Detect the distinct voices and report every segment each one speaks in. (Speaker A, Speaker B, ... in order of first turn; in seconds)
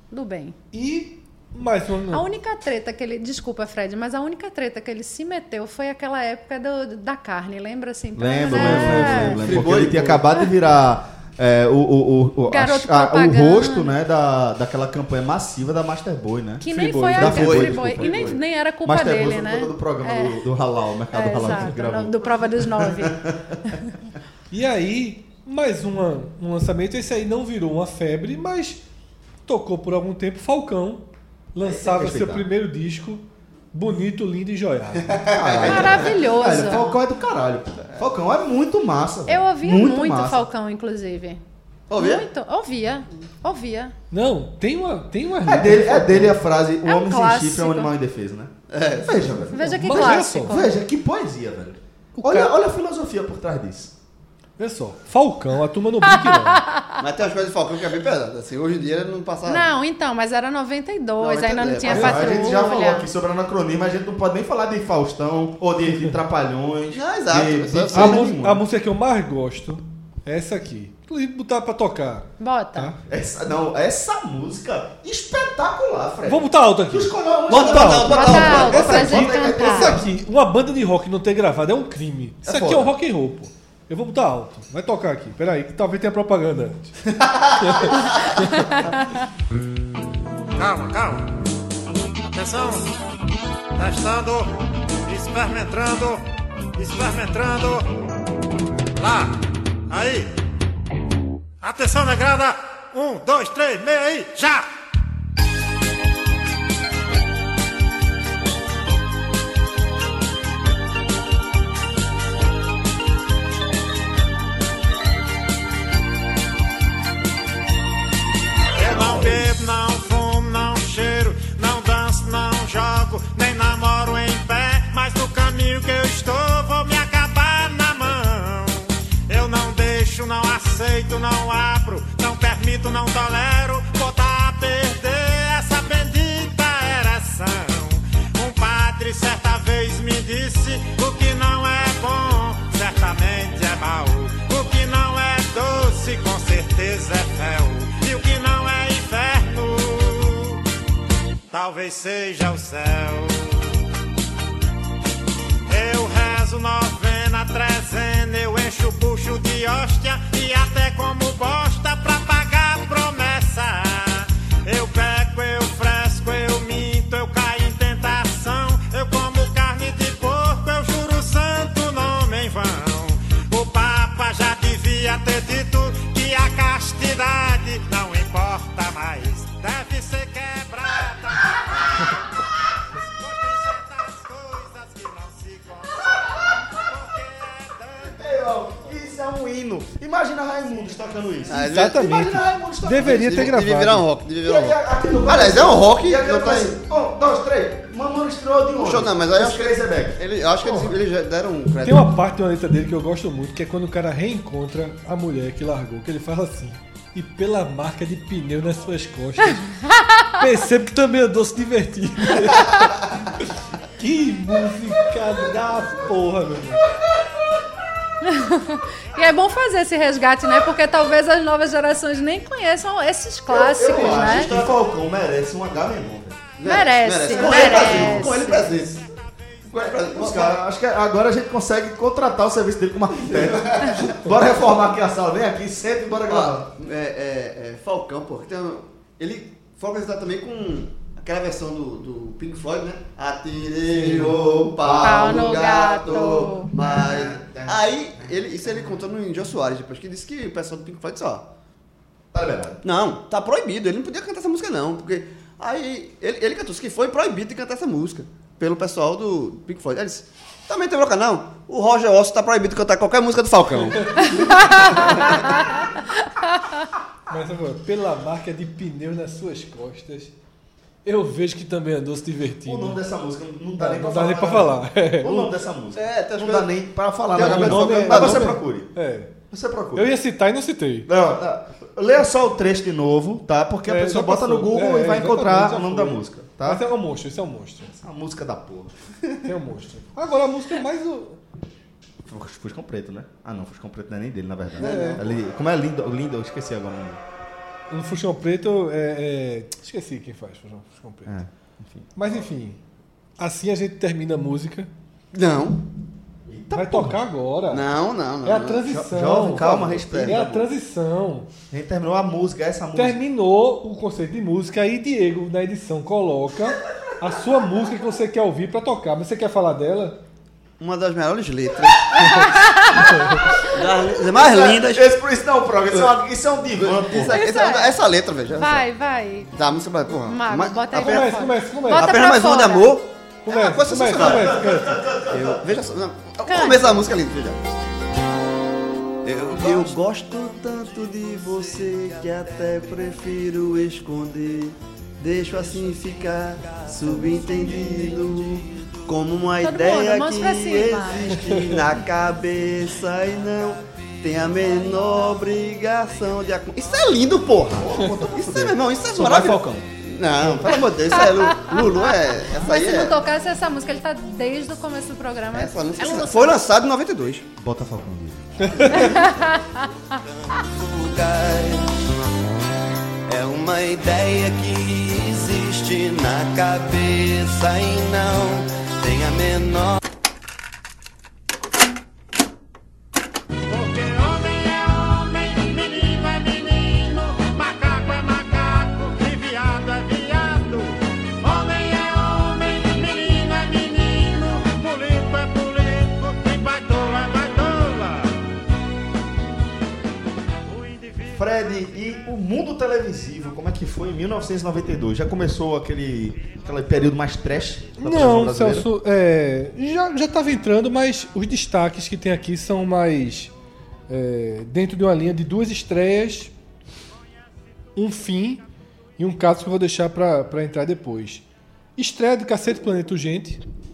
Speaker A: 0.1-0.6, 2.1-9.4, 12.5-13.9, 16.6-20.4, 21.1-23.8, 35.7-37.0, 39.3-41.4, 41.9-43.9, 46.9-47.9, 49.5-50.8, 56.2-56.9, 59.5-63.1, 72.4-72.9, 78.1-80.0, 88.5-89.0, 209.8-210.4, 218.2-224.5, 226.7-228.7, 245.0-246.7, 264.4-265.7, 322.2-323.3, 327.2-328.0, 328.5-329.5, 330.2-333.0, 336.4-337.0, 349.6-351.4, 361.1-366.6, 369.0-369.8
Speaker B: 0.7-2.3, 24.5-28.8, 29.5-35.2, 44.1-46.4, 49.6-50.6, 52.2-52.5, 54.6-56.6, 61.9-62.2, 67.9-73.0, 76.2-87.0, 87.6-88.8, 191.6-194.1, 201.8-209.8, 210.4-212.9, 214.0-216.8, 264.0-264.3, 267.3-270.3, 271.1-273.0, 273.8-275.5, 277.4-279.3, 279.9-281.1, 283.9-287.9, 289.4-291.4, 294.8-295.2, 297.9-301.3, 302.2-302.8, 303.4-304.9, 306.7-307.9, 308.4-311.5, 312.9-320.2, 323.1-323.4, 330.9-332.1, 333.4-335.0, 368.6-369.1, 408.0-413.5, 414.1-416.5, 417.9-418.6, 419.2-421.4, 422.0-423.6
Speaker C: 8.2-23.8, 31.6-32.5, 35.3-40.5, 45.5-48.5, 49.0-53.9, 61.9-68.6, 73.1-80.0, 82.5-82.9, 118.9-119.4, 188.1-193.5, 194.4-200.9, 223.5-226.4, 227.3-228.7, 229.8-236.7, 244.0-245.6, 246.8-249.0, 252.3-252.8, 272.6-278.9, 279.5-280.1, 281.1-286.8, 287.9-289.5, 292.2-297.2, 301.3-302.3, 306.5-307.2, 308.9-310.7, 311.7-313.2, 324.0-327.4, 333.9-335.7, 357.7-359.9, 360.4-360.7, 367.6-369.0, 401.4-408.9
Speaker D: 8.6-10.4, 17.2-18.4, 35.1-36.1, 41.9-42.2, 48.7-49.5, 57.0-59.7, 61.2-62.5, 66.9-68.3, 77.5-79.2, 191.5-192.0, 193.0-196.7, 198.8-202.1, 223.8-224.7, 226.6-229.0, 229.7-230.6, 233.3-234.2, 236.3-251.4, 252.8-265.6, 275.9-276.7, 277.3-278.6, 294.8-295.3, 305.3-305.8, 307.7-308.9, 309.4-310.4, 320.8-322.6, 323.6-325.1, 326.8-328.9, 329.5-331.3, 331.9-334.7, 335.3-337.6, 339.2-363.2, 365.5-367.5, 368.8-369.5, 370.1-372.0, 373.3-380.0
Speaker E: 90.6-91.3, 92.3-92.9, 93.8-94.5, 95.0-96.2, 96.8-97.9, 99.0-100.3, 101.6-104.7, 118.8-150.6, 151.5-153.8, 155.7-182.1, 183.0-188.2, 383.7-398.4, 400.7-401.3